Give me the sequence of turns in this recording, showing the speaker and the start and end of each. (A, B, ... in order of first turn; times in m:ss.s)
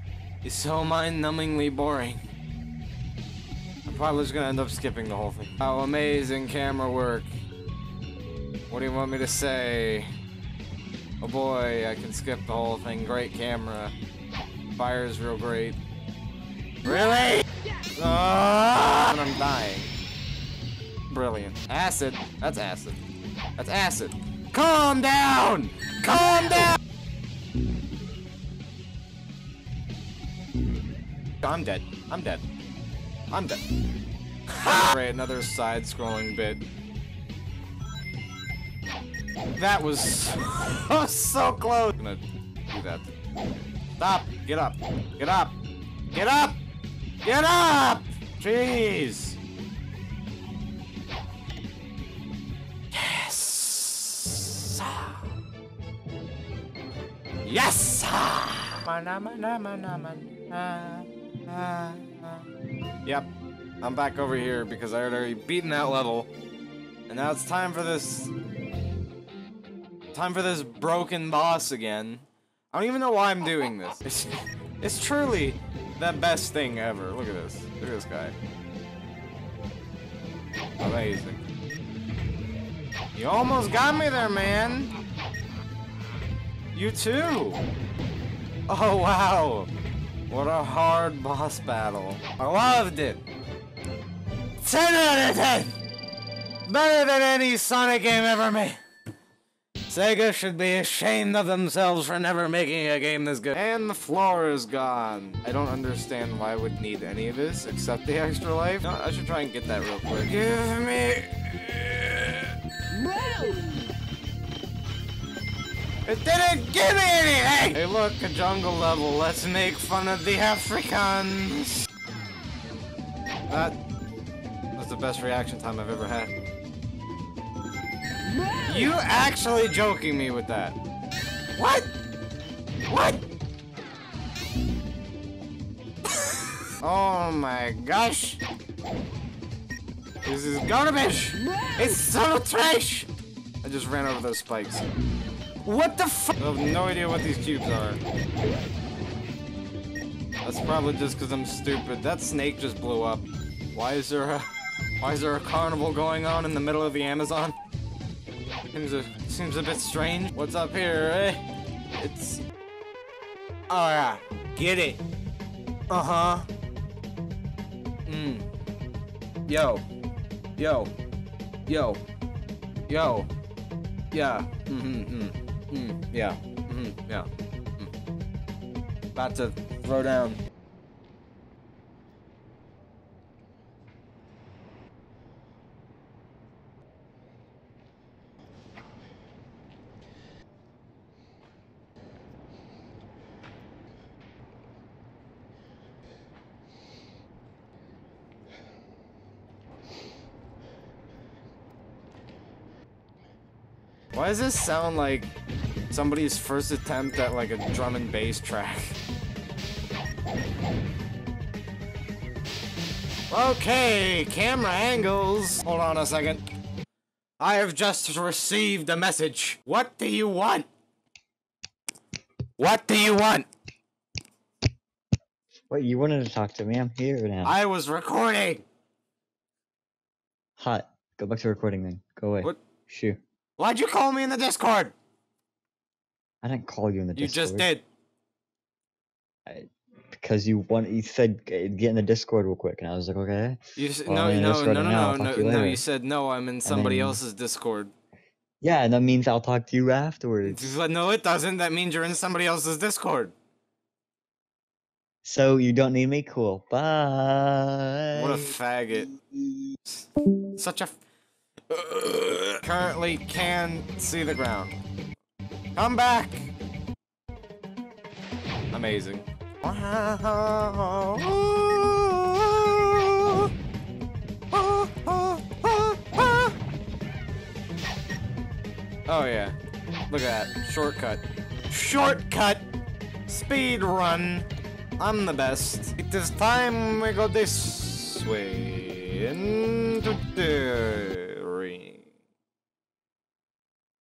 0:00.4-0:02.2 A
0:03.8-0:07.3 A
0:08.7-0:10.1 A
0:11.2-0:13.9 A
0:14.8-0:15.8 A
0:16.8-0:19.9 A
0:21.1-0:23.0 A
0:23.6-0:26.8 A
0:31.4-0:32.4 A
0:33.3-0:33.6 A
0:34.5-0:36.6 A
0:39.6-0:43.1 A
0:44.0-0:45.5 A
0:46.1-0:46.6 A
0:47.2-0:49.4 A
0:52.9-0:55.2 A
0:57.4-1:02.4 A
1:03.8-1:06.3 A
1:07.1-1:08.3 A
1:10.1-1:18.3 A
1:20.8-1:21.4 A
1:23.1-1:24.9 A
1:26.7-1:27.6 A
1:28.7-1:29.7 A
1:30.3-1:33.2 A
1:34.6-1:35.8 A
1:36.6-1:38.8 A
1:39.9-1:52.6 A
1:56.0-2:01.8 A
2:03.5-2:03.8 A
2:04.8-2:06.3 A
2:08.6-2:10.8 A
2:11.6-2:11.9 A
2:12.9-2:13.2 A
2:16.8-2:18.4 A
2:20.2-2:23.1 A
2:23.6-2:24.8 A
2:25.6-2:28.0 A
2:30.4-2:34.5 A
2:35.0-2:37.6 A
2:38.7-2:41.4 A
2:42.0-2:42.4 A
2:43.7-2:45.0 A
2:45.9-2:46.5 A
2:48.0-2:48.4 A
2:49.5-2:49.8 A
2:50.6-2:50.9 A
2:51.7-2:52.0 A
2:52.9-2:53.3 A
2:54.1-2:57.9 A
2:59.1-3:00.4 A
3:24.1-3:25.3 A
3:25.9-3:29.0 A
3:33.3-3:36.4 A
3:37.4-3:40.7 A
3:42.6-3:43.5 A
3:45.7-3:47.6 B
3:47.4-3:48.6 A
3:50.6-3:53.2 B
3:53.6-3:54.9 A
3:56.4-3:57.7 B
3:57.1-3:57.8 A
3:59.4-4:05.8 B
4:03.8-4:07.9 A
4:06.6-4:07.2 B
4:08.6-4:10.6 B
4:10.4-4:13.3 A
4:15.2-4:18.5 B
4:18.1-4:19.1 A
4:19.8-4:20.9 A
4:21.7-4:24.8 A
4:25.8-4:26.5 A
4:28.7-4:33.5 A
4:34.5-4:36.5 A
4:39.1-4:39.5 A
4:40.1-4:42.6 A
4:43.3-4:44.5 A
4:45.0-4:52.1 A